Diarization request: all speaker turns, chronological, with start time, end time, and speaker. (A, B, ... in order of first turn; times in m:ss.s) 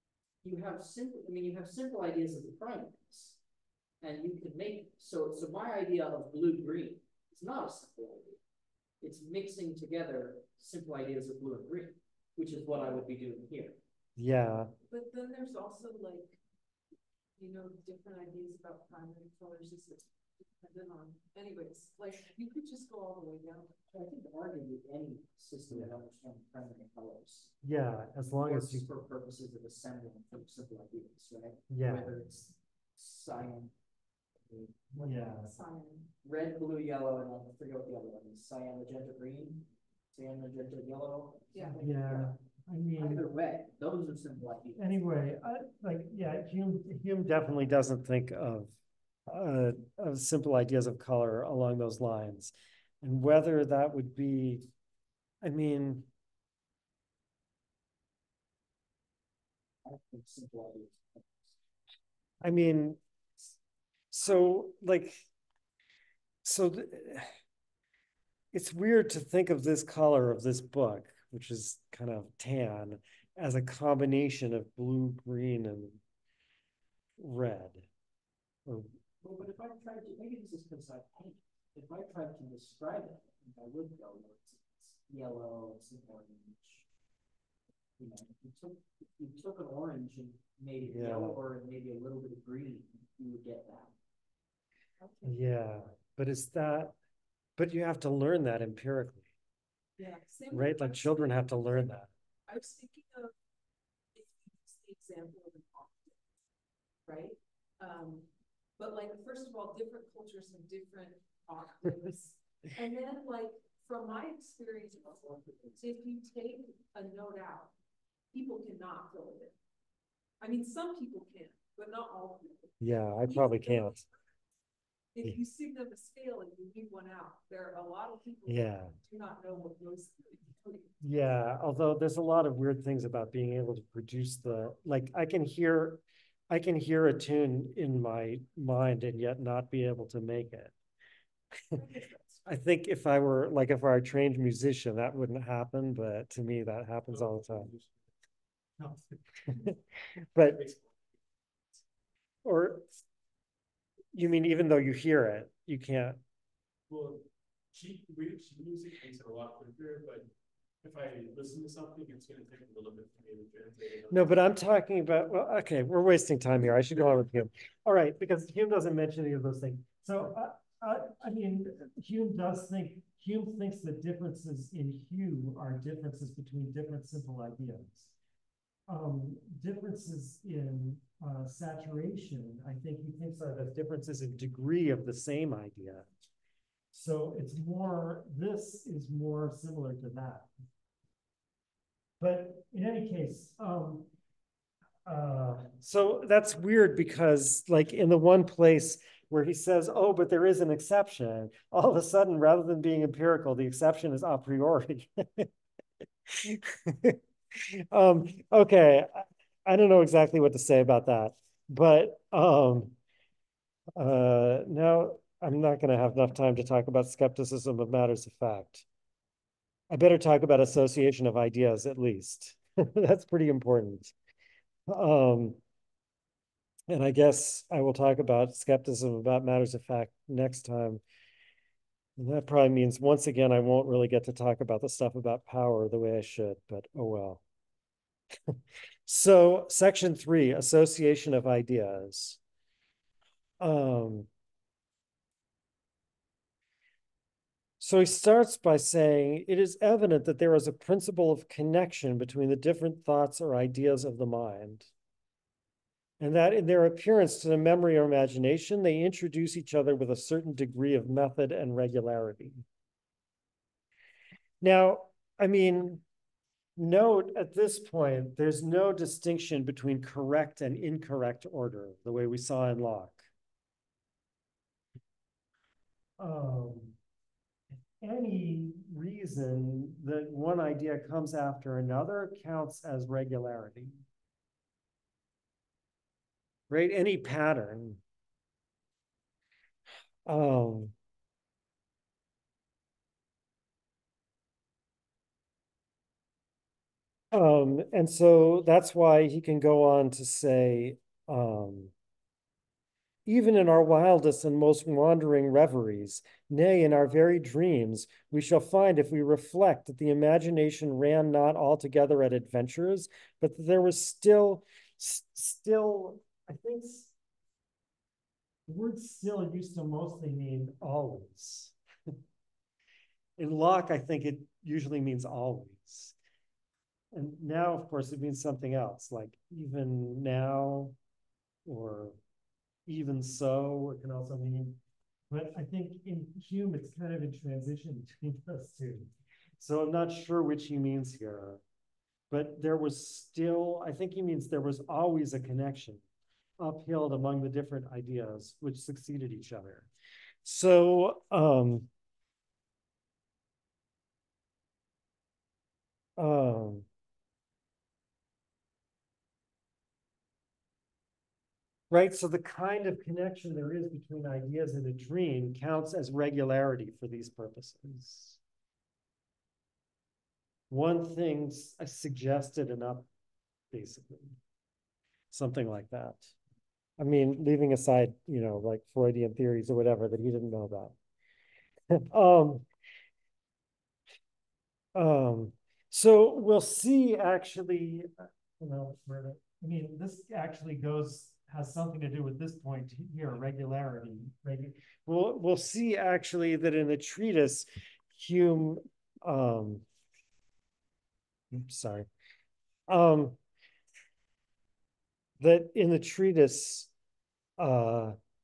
0:00.4-0:03.4 A
0:04.0-0:08.4 A
0:09.0-0:13.8 A
0:14.2-0:14.7 B
0:14.9-0:16.4 C
0:17.4-0:23.8 C
0:23.9-0:27.5 A
0:27.6-0:28.8 B
0:28.4-0:33.7 A
0:31.7-0:32.1 B
0:34.4-0:35.1 A
0:35.0-0:35.5 B
0:35.4-0:36.1 C
0:36.2-0:42.3 A
0:41.5-0:41.8 C
0:41.8-0:43.2 B
0:43.0-0:44.8 A
0:44.8-0:48.7 B
0:49.3-0:54.6 B
0:55.4-0:56.1 B
0:59.8-1:01.6 A
1:02.4-1:03.0 B
1:04.1-1:05.2 B
1:06.4-1:07.3 B
1:08.5-1:16.0 B
1:17.2-1:17.8 B
1:19.2-1:26.8 A
1:28.0-1:33.9 A
1:30.8-1:31.4 B
1:35.0-1:35.3 C
1:35.2-1:36.9 B
1:37.6-1:39.2 B
1:40.0-1:41.9 C
1:40.5-1:42.1 B
1:42.5-1:43.3 C
1:44.1-1:46.2 C
1:47.0-1:55.2 C
1:55.0-1:55.8 A
1:55.8-1:57.7 C
1:58.3-1:59.5 C
2:00.4-2:04.1 C
2:02.8-2:04.0 B
2:05.1-2:11.0 C
2:08.5-2:08.9 B
2:11.0-2:20.7 B
2:21.8-2:22.1 C
2:22.4-2:27.7 B
2:27.1-2:28.1 D
2:28.8-2:29.6 D
2:29.5-2:29.8 B
2:30.3-2:30.6 B
2:30.4-2:31.1 D
2:32.4-2:32.9 B
2:34.1-2:36.2 B
2:36.9-2:40.3 D
2:40.8-2:44.5 D
2:44.1-2:58.1 B
2:58.9-3:06.1 B
3:06.9-3:10.5 B
3:12.2-3:14.1 B
3:15.0-3:25.5 B
3:26.3-3:33.0 B
3:34.0-3:38.8 B
3:39.9-3:44.1 B
3:44.9-3:45.6 B
3:46.9-3:51.0 B
3:52.2-3:57.4 B
3:58.5-4:02.4 B
4:03.6-4:04.3 B
4:07.8-4:14.9 B
4:16.2-4:22.6 B
4:24.6-4:26.0 B
4:26.8-4:33.3 B
4:36.2-4:37.0 B
4:38.0-4:44.0 B
4:46.7-4:48.0 B
4:50.2-4:50.9 B
4:57.3-5:01.9 B
5:03.2-5:17.1 B
5:18.7-5:21.7 B
5:23.4-5:26.1 B
5:27.1-5:30.9 B
5:31.6-5:32.2 B
5:32.9-5:41.6 B
5:42.3-5:46.0 B
5:46.6-5:49.9 B
5:50.4-5:51.9 B
5:56.2-5:56.9 B
6:01.9-6:08.4 B
6:10.7-6:13.1 B
6:13.7-6:14.4 B
6:15.3-6:16.3 B
6:17.0-6:21.0 B
6:22.0-6:22.6 B
6:24.9-6:39.8 B
6:41.5-6:42.1 B
6:42.9-6:43.4 B
6:45.4-6:46.9 B
6:47.6-6:48.2 B